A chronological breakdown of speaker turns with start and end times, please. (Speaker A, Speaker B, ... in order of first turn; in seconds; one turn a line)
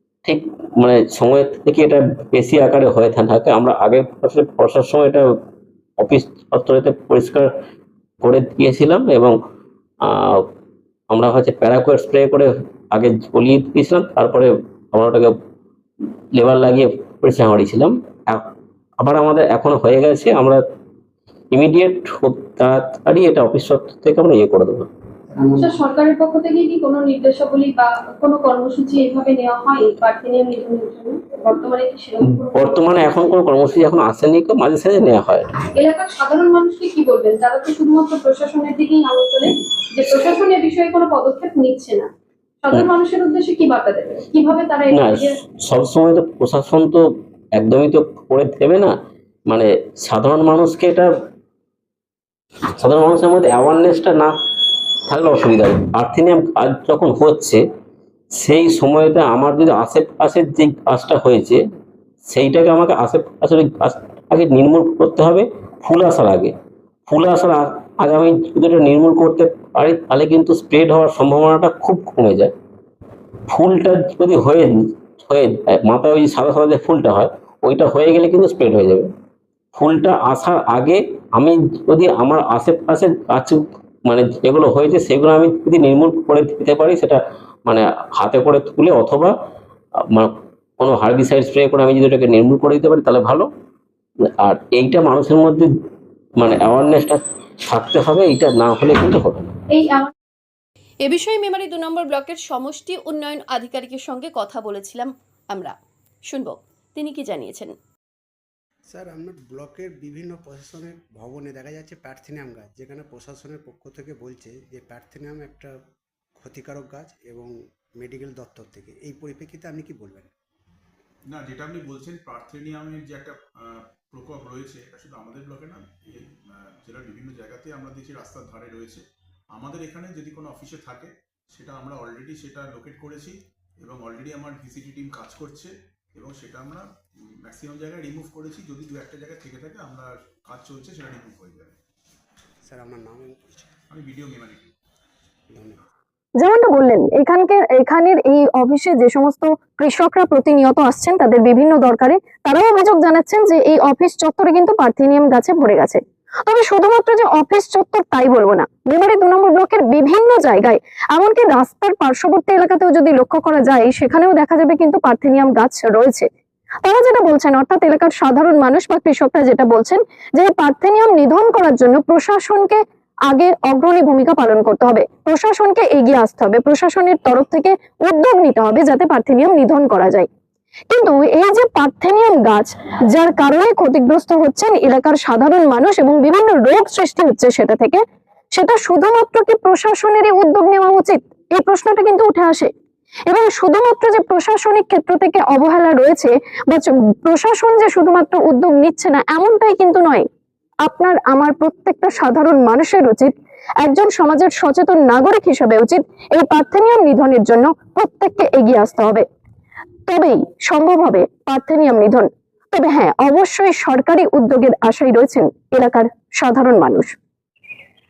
Speaker A: 0.2-5.2
Speaker A: 6.0-7.5
Speaker A: 8.2-9.3
Speaker A: 10.0-10.5
Speaker A: 11.1-15.3
Speaker A: 16.3-18.4
Speaker A: 19.0-20.6
Speaker A: 21.5-24.9
Speaker B: 25.3-25.8
Speaker C: 25.6-33.3
Speaker A: 32.3-35.5
Speaker C: 35.8-42.1
Speaker C: 42.6-45.4
Speaker A: 44.9-47.0
Speaker A: 47.6-48.9
Speaker A: 49.5-51.1
Speaker A: 52.8-54.4
Speaker A: 55.1-57.6
Speaker A: 58.4-61.6
Speaker A: 62.3-66.5
Speaker A: 67.1-72.5
Speaker A: 73.5-74.7
Speaker A: 75.2-79.1
Speaker A: 79.8-89.3
Speaker A: 90.1-93.5
Speaker A: 94.4-95.7
Speaker A: 96.4-99.5
Speaker C: 99.7-100.1
Speaker D: 101.0-105.8
Speaker D: 106.3-107.7
Speaker B: 108.9-115.7
Speaker B: 116.4-120.3
Speaker E: 121.3-129.0
Speaker E: 129.5-136.9
Speaker E: 137.4-141.8
Speaker B: 142.7-143.7
Speaker E: 143.9-144.7
Speaker B: 145.5-145.8
Speaker F: 146.4-166.3
Speaker F: 166.8-180.3
Speaker F: 180.9-188.0
Speaker F: 188.6-192.7
Speaker F: 193.3-200.2
Speaker F: 200.9-209.2
Speaker F: 210.1-217.2